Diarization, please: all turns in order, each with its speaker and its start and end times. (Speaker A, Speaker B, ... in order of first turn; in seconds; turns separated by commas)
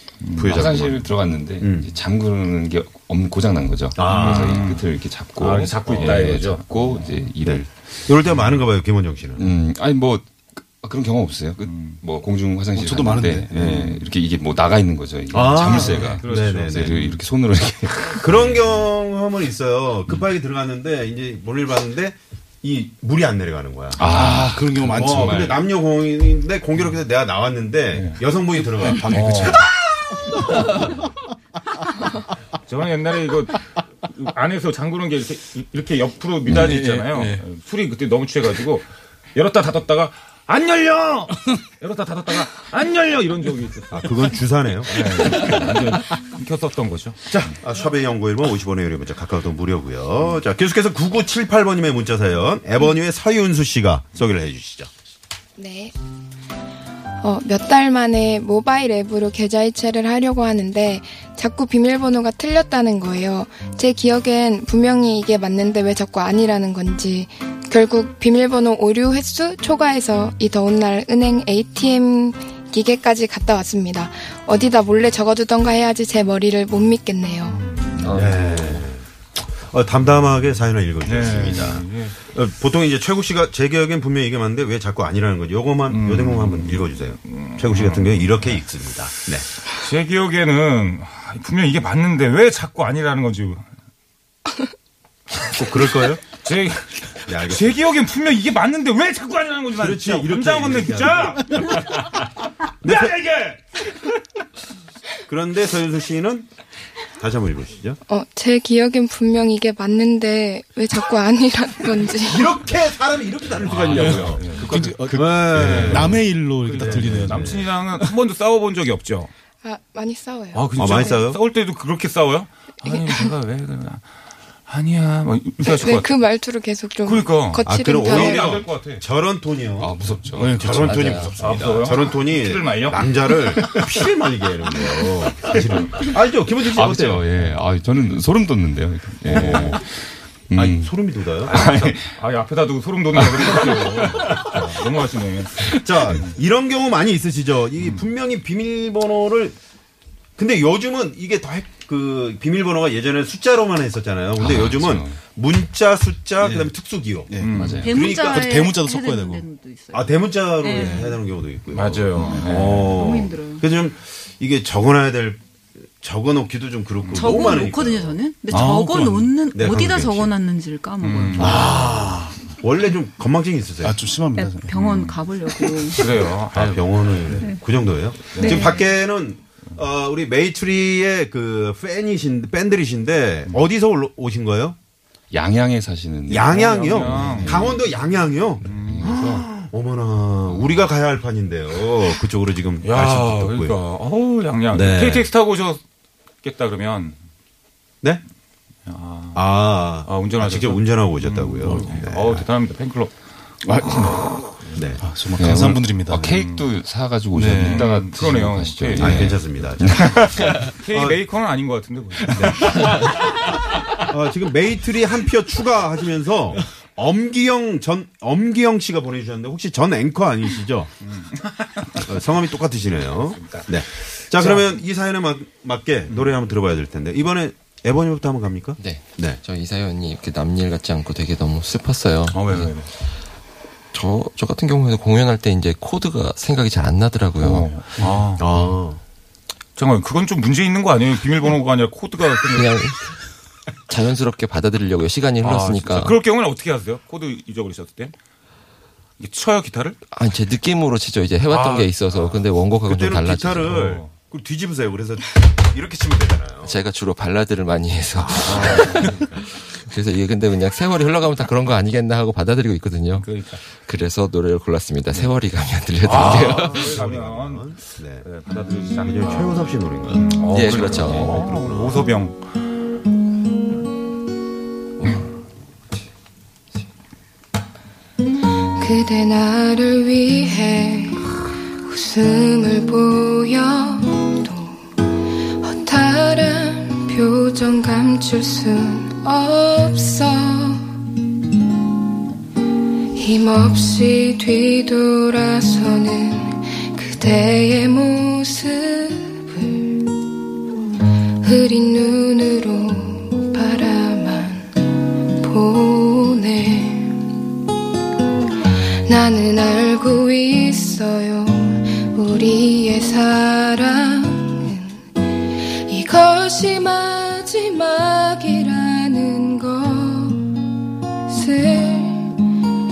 Speaker A: 0.2-0.6, Speaker B: 0.3-1.1, Speaker C: 0.5-7.7, Speaker B: 1.6-1.9, Speaker B: 4.0-4.7, Speaker A: 4.0-7.1, Speaker B: 7.4-9.5, Speaker C: 9.3-18.6, Speaker A: 11.6-12.0, Speaker D: 12.7-13.6, Speaker B: 13.5-14.0, Speaker B: 15.3-16.9, Speaker A: 15.8-17.2, Speaker B: 18.2-24.0, Speaker C: 24.0-25.6, Speaker D: 24.0-25.6, Speaker B: 24.9-29.6, Speaker A: 27.9-28.2, Speaker A: 28.8-29.6, Speaker A: 32.7-44.1, Speaker C: 36.5-36.8, Speaker D: 36.6-37.4, Speaker B: 43.9-45.2, Speaker A: 44.9-47.2, Speaker B: 47.3-54.9, Speaker E: 55.5-55.9, Speaker E: 57.2-77.6, Speaker A: 77.7-78.4, Speaker F: 78.0-78.7, Speaker B: 78.0-79.0, Speaker B: 79.6-89.5, Speaker A: 81.0-82.2, Speaker A: 85.9-88.6, Speaker A: 89.7-93.7, Speaker B: 95.4-96.2, Speaker A: 96.4-96.9, Speaker B: 97.2-97.8, Speaker A: 97.5-104.1, Speaker B: 99.8-101.6, Speaker B: 102.8-103.2, Speaker B: 105.2-106.5, Speaker B: 107.2-108.0, Speaker E: 108.1-112.5, Speaker B: 112.2-117.7, Speaker A: 113.7-115.0, Speaker D: 113.7-118.2, Speaker A: 115.6-116.1, Speaker A: 116.6-119.3, Speaker E: 119.6-121.2, Speaker A: 120.5-124.0, Speaker B: 120.8-121.4, Speaker A: 124.7-126.2, Speaker E: 125.6-128.6, Speaker A: 127.0-129.0, Speaker B: 127.6-129.9, Speaker C: 129.8-130.8, Speaker D: 130.3-131.6, Speaker B: 130.6-137.3, Speaker F: 130.8-131.3, Speaker A: 131.4-133.1, Speaker C: 136.7-139.9, Speaker A: 139.3-139.8, Speaker C: 140.5-142.1, Speaker B: 140.5-141.8, Speaker A: 141.7-145.6, Speaker C: 143.1-144.3, Speaker B: 144.0-144.6, Speaker B: 145.7-149.6, Speaker B: 150.4-158.5, Speaker C: 154.4-155.2, Speaker D: 156.4-156.7, Speaker D: 157.3-159.5, Speaker A: 157.4-157.8, Speaker C: 157.5-157.9, Speaker G: 157.8-161.1, Speaker B: 159.9-165.4, Speaker D: 160.7-161.1, Speaker A: 161.7-163.0, Speaker G: 162.2-163.7, Speaker B: 166.0-168.2, Speaker A: 167.0-167.4, Speaker G: 167.1-171.7, Speaker A: 168.5-169.2, Speaker D: 168.5-169.3, Speaker B: 169.5-170.4, Speaker A: 171.0-171.6, Speaker B: 171.3-174.0, Speaker D: 171.4-172.4, Speaker D: 173.8-174.8, Speaker G: 174.3-176.1, Speaker A: 174.7-175.2, Speaker A: 175.9-177.5, Speaker B: 176.5-184.8, Speaker G: 177.4-177.6, Speaker A: 178.3-178.8, Speaker G: 178.4-178.9, Speaker C: 185.3-187.8, Speaker B: 186.3-193.8, Speaker A: 186.4-187.6, Speaker C: 188.6-189.5, Speaker A: 188.6-189.1, Speaker A: 192.8-195.8, Speaker B: 194.7-195.3, Speaker A: 196.4-197.2, Speaker A: 198.8-203.1, Speaker B: 199.3-202.4, Speaker D: 201.6-202.0, Speaker D: 203.6-206.4, Speaker B: 204.7-205.0, Speaker C: 205.4-210.6, Speaker A: 206.3-206.7, Speaker D: 207.3-208.0, Speaker A: 207.6-209.3, Speaker B: 208.9-210.4, Speaker D: 209.0-209.3, Speaker A: 210.0-212.9, Speaker B: 210.9-211.2, Speaker B: 212.3-212.9, Speaker B: 214.0-220.9, Speaker A: 221.0-222.1, Speaker B: 221.9-229.4, Speaker A: 223.1-223.8, Speaker A: 224.3-224.7, Speaker F: 228.8-232.7, Speaker A: 232.3-232.9, Speaker F: 233.9-237.7, Speaker A: 237.4-238.7, Speaker B: 238.4-239.0, Speaker A: 239.8-242.8, Speaker F: 242.5-242.9, Speaker F: 243.9-246.2, Speaker A: 245.4-248.2, Speaker A: 249.2-250.0, Speaker F: 250.1-253.8, Speaker A: 251.5-252.0, Speaker B: 252.1-256.8, Speaker A: 253.7-254.1, Speaker F: 256.6-266.9, Speaker B: 258.1-259.4, Speaker A: 258.5-259.3, Speaker A: 263.2-263.6, Speaker A: 266.0-272.4, Speaker B: 266.2-268.3, Speaker B: 269.0-270.4, Speaker F: 270.5-271.3, Speaker B: 271.0-272.0, Speaker E: 278.8-284.9, Speaker E: 285.6-290.9, Speaker E: 293.1-300.2, Speaker E: 301.4-304.8, Speaker E: 305.3-307.3, Speaker E: 309.0-320.7, Speaker E: 321.3-322.6